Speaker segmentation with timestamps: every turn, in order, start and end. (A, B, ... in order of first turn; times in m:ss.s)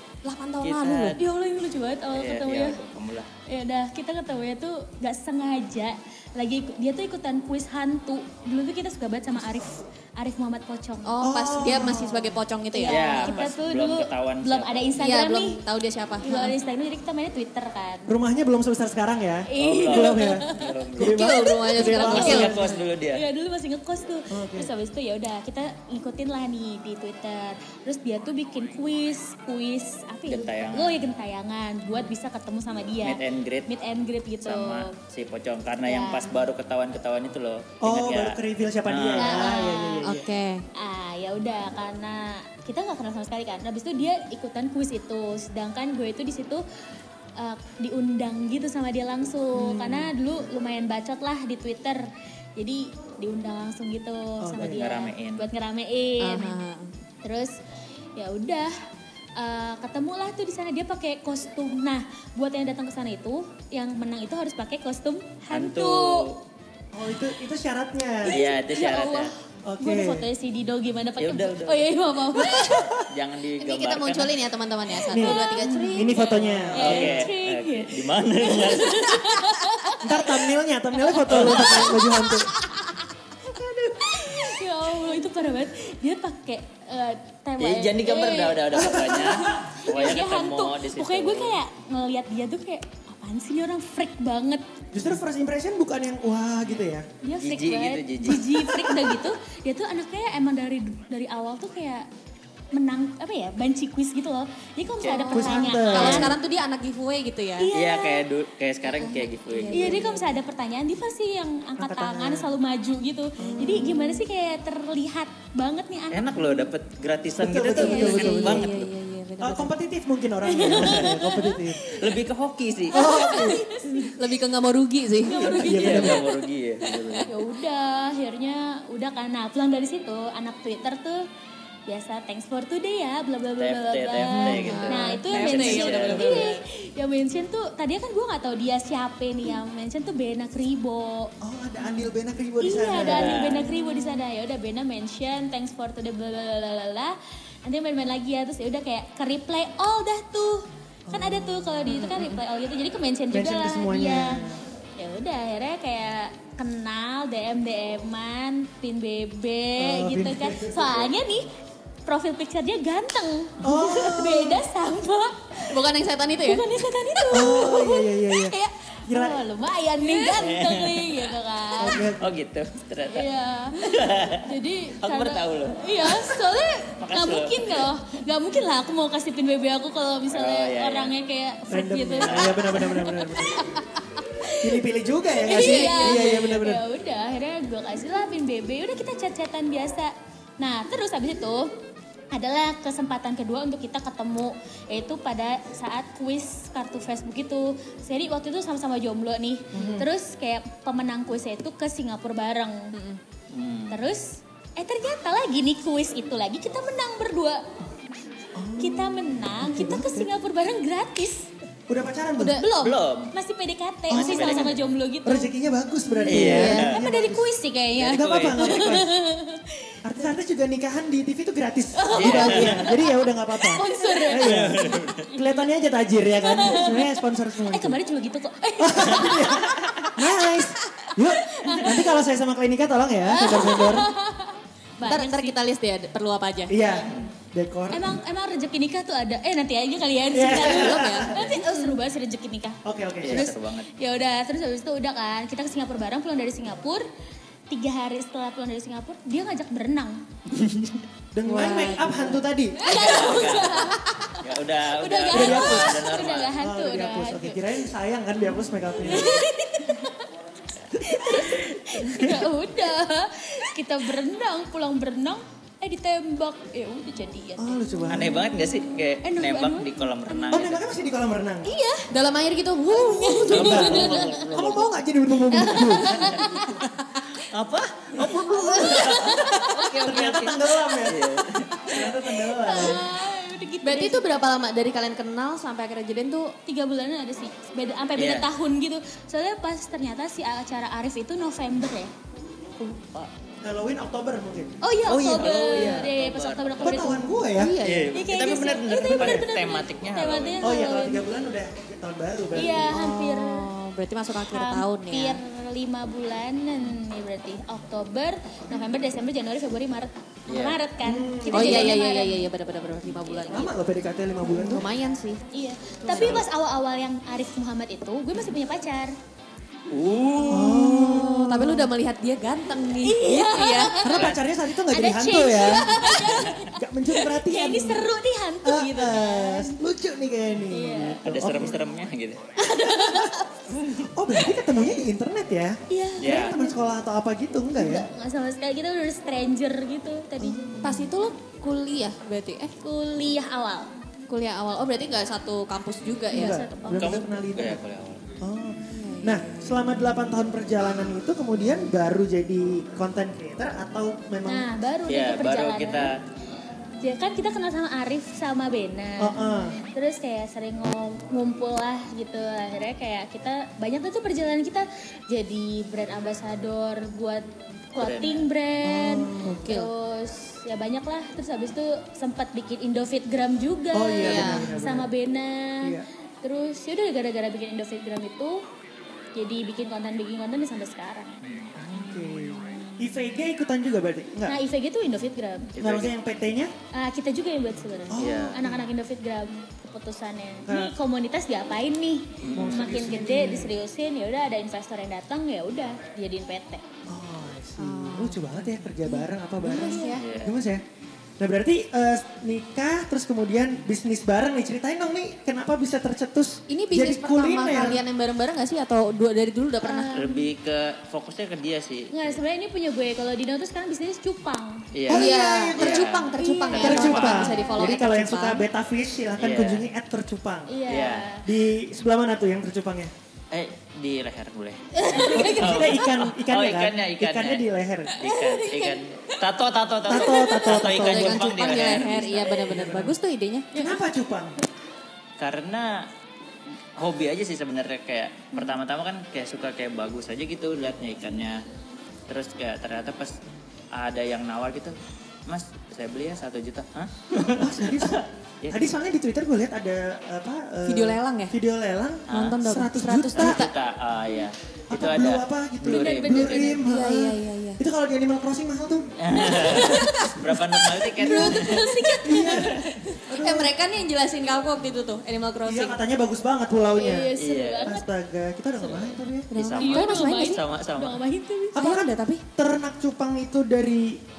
0:00.2-0:01.2 A
0:00.6-0:01.2 B
0:01.2-0:02.8 C
0:02.1-0:03.3 B
0:03.5-0:11.9 C
0:11.0-0:13.5 A
0:11.2-0:12.4 D
0:12.7-0:15.6 C
0:12.9-0:14.9 B
0:15.0-0:16.6 A
0:16.2-0:18.1 C
0:18.1-0:22.8 D
0:19.5-0:35.0 C
0:19.6-0:21.3 B
0:21.0-0:22.6 A
0:22.0-0:23.2 B
0:24.3-0:24.7 D
0:30.3-0:31.0 B
0:33.0-0:33.7 B
0:34.4-0:39.6 B
0:35.9-0:36.4 C
0:37.8-0:40.2 D
0:39.2-0:40.1 C
0:40.0-0:40.6 A
0:40.8-0:46.6 C
0:47.4-0:56.6 C
0:49.6-0:50.1 A
0:54.4-0:54.8 D
0:54.6-0:55.5 B
0:56.2-0:56.9 A
0:57.2-0:57.6 C
0:58.2-0:58.8 C
0:59.4-1:06.4 C
1:05.5-1:06.4 B
1:06.9-1:08.4 D
1:08.3-1:09.3 B
1:08.3-1:13.0 C
1:09.6-1:10.3 D
1:11.2-1:11.9 B
1:12.4-1:13.1 D
1:13.1-1:14.3 B
1:13.6-1:16.8 A
1:15.1-1:17.3 D
1:15.1-1:15.7 C
1:16.7-1:19.6 B
1:16.8-1:20.5 C
1:20.0-1:22.5 D
1:21.0-1:22.9 C
1:21.2-1:22.0 B
1:23.5-1:24.5 D
1:24.0-1:34.6 C
1:27.6-1:31.6 B
1:28.7-1:29.7 D
1:34.9-1:37.1 D
1:37.2-1:42.1 C
1:37.4-1:38.5 B
1:38.6-1:39.2 D
1:42.7-1:46.4 C
1:45.0-1:45.4 B
1:45.3-1:46.4 D
1:45.9-1:47.7 A
1:47.6-1:48.2 C
1:47.7-1:50.0 B
1:49.0-1:50.1 A
1:49.7-1:56.7 C
1:51.8-1:52.5 D
1:53.4-1:54.2 D
1:56.1-1:58.9 B
1:57.4-1:58.7 D
1:57.8-1:58.4 C
1:57.8-1:59.7 A
1:59.4-2:01.8 D
2:00.4-2:02.1 C
2:00.6-2:01.2 B
2:01.8-2:03.3 B
2:02.9-2:04.1 C
2:02.9-2:03.7 D
2:03.3-2:05.7 A
2:05.2-2:06.4 C
2:05.3-2:06.2 D
2:05.7-2:07.3 B
2:07.2-2:11.3 C
2:11.9-2:21.3 C
2:13.6-2:16.5 B
2:14.2-2:16.6 A
2:14.6-2:14.9 D
2:21.4-2:23.5 D
2:22.6-2:34.4 C
2:22.9-2:23.7 B
2:31.1-2:32.0 D
2:31.9-2:32.4 A
2:33.3-2:34.6 D
2:35.0-2:41.5 C
2:39.8-2:41.1 D
2:42.0-2:45.8 C
2:43.6-2:44.6 D
2:45.7-2:46.6 A
2:46.4-2:52.0 C
2:47.3-2:48.6 D
2:49.1-2:49.4 D
2:50.4-2:51.4 B
2:51.8-2:52.3 D
2:52.2-2:56.4 B
2:53.1-3:04.8 C
2:57.0-2:57.9 B
3:00.3-3:01.1 B
3:01.7-3:03.7 D
3:02.3-3:02.8 B
3:04.5-3:06.8 D
3:05.3-3:11.7 C
3:05.4-3:06.5 A
3:12.3-3:22.9 C
3:19.7-3:20.1 D
3:22.9-3:23.2 A
3:23.5-3:24.0 B
3:23.9-3:27.6 C
3:28.6-3:30.3 D
3:28.8-3:31.5 C
3:31.9-3:32.6 D
3:32.4-3:35.5 C
3:32.8-3:33.3 B
3:34.1-3:39.1 D
3:34.1-3:34.9 B
3:36.2-3:37.0 B
3:36.2-3:40.0 C
3:36.3-3:36.9 A
3:38.0-3:39.0 B
3:40.0-3:48.0 D
3:42.0-3:45.6 C
3:42.2-3:42.9 B
3:43.9-3:44.2 A
3:44.4-3:45.3 B
3:46.4-3:50.1 C
3:48.8-3:54.1 D
3:49.2-3:50.1 B
3:51.1-3:52.2 C
3:53.3-3:55.6 C
3:55.0-3:56.8 A
3:56.7-3:58.2 D
3:57.9-4:07.1 C
4:00.3-4:01.5 D
4:00.5-4:01.7 A
4:02.8-4:03.5 D
4:03.2-4:03.9 B
4:07.7-4:10.2 C
4:10.6-4:11.0 B
4:11.3-4:12.8 D
4:11.4-4:12.5 A
4:12.8-4:14.4 C
4:12.8-4:16.5 B
4:14.9-4:17.7 C
4:15.3-4:19.5 D
4:19.0-4:20.3 C
4:20.9-4:27.8 C
4:20.9-4:22.5 D
4:27.6-4:28.5 D
4:28.1-4:30.8 B
4:29.2-4:30.6 C
4:30.5-4:31.7 D
4:31.6-4:32.1 C
4:32.1-4:34.0 A
4:32.9-4:34.4 C
4:33.2-4:36.8 D
4:33.5-4:35.0 B
4:35.5-4:36.8 C
4:36.1-4:36.4 B
4:37.4-4:41.8 B
4:38.5-4:40.0 C
4:39.6-4:43.1 D
4:41.9-4:44.3 C
4:43.8-4:46.6 A
4:46.7-4:52.1 C
4:48.2-4:48.5 B
4:53.6-4:56.1 D
4:54.8-4:57.3 C
4:55.1-4:57.2 B
4:56.8-4:57.8 D
4:57.5-4:58.2 A
4:57.8-5:00.9 B
4:58.1-5:01.4 C
4:58.9-4:59.5 D
5:00.6-5:03.0 D
5:02.5-5:03.7 C
5:02.9-5:05.4 A
5:04.4-5:12.4 C
5:10.5-5:10.8 B
5:11.0-5:12.0 D
5:11.5-5:13.7 A
5:13.4-5:14.9 D
5:14.4-5:15.4 A
5:15.5-5:19.1 C
5:16.0-5:16.4 A
5:16.1-5:16.4 B
5:19.9-5:21.3 B
5:20.4-5:24.0 A
5:20.5-5:21.9 D
5:23.0-5:29.8 C
5:24.0-5:28.1 D
5:24.2-5:24.4 B
5:28.6-5:31.8 D
5:30.7-5:31.2 C
5:31.2-5:32.5 B
5:32.6-5:34.0 C
5:32.8-5:38.1 D
5:35.9-5:36.8 C
5:36.2-5:36.6 B
5:37.8-5:40.8 C
5:40.4-5:41.1 D
5:40.8-5:42.7 A
5:42.8-5:43.9 C
5:44.3-5:46.7 A
5:46.3-5:47.3 C
5:46.3-5:47.8 D
5:46.9-5:48.2 B
5:48.4-5:54.7 D
5:48.9-5:50.0 A
5:54.4-5:56.1 C
5:55.1-5:56.2 B
5:57.0-6:18.6 C
5:59.2-5:59.8 D
6:08.0-6:08.5 B
6:08.8-6:09.7 D
6:09.4-6:09.9 A
6:13.9-6:15.1 D
6:14.2-6:14.8 A
6:19.4-6:21.4 C
6:21.4-6:21.7 B
6:21.8-6:24.6 D
6:21.9-6:23.1 A
6:24.5-6:25.7 C
6:25.8-6:26.1 B
6:25.8-6:26.7 D
6:26.9-6:36.8 C
6:28.1-6:28.9 D
6:28.2-6:28.6 B
6:30.7-6:31.0 D
6:32.4-6:33.1 B
6:32.5-6:33.7 D
6:37.1-6:40.8 D
6:37.8-6:40.2 A
6:39.8-6:40.2 C
6:40.1-6:40.6 B
6:41.4-6:48.0 D
6:46.7-6:50.3 A
6:49.8-6:50.4 C
6:50.1-6:52.4 B
6:52.1-6:54.9 C
6:54.9-6:57.6 B
6:55.1-6:56.1 D
6:55.1-6:58.7 A
6:56.4-6:58.0 C
6:56.8-7:00.8 D
6:59.4-6:59.9 B
7:00.7-7:01.5 C
7:00.9-7:01.3 B
7:01.4-7:03.1 D
7:03.5-7:12.8 B
7:04.9-7:06.0 C
7:05.2-7:08.2 D
7:08.2-7:09.0 C
7:10.1-7:11.5 D
7:10.1-7:10.7 C
7:10.8-7:13.9 A
7:12.7-7:13.1 D
7:13.7-7:14.6 D
7:15.4-7:16.1 B
7:17.0-7:21.6 B
7:22.3-7:23.4 B
7:23.9-7:28.9 B
7:27.4-7:33.6 D
7:30.9-7:31.6 A
7:32.3-7:32.6 B
7:32.3-7:33.7 A
7:33.3-7:36.8 B
7:34.9-7:40.1 D
7:35.9-7:36.8 C
7:36.8-7:37.8 A
7:39.2-7:41.9 B
7:39.4-7:43.2 C
7:41.2-7:43.7 D
7:43.3-7:46.0 A
7:45.7-7:49.6 D
7:46.9-7:48.1 C
7:47.4-7:48.0 B
7:49.5-7:50.6 A
7:49.6-7:51.2 B
7:49.8-7:51.8 C
7:51.7-7:54.2 D
7:51.8-7:52.4 A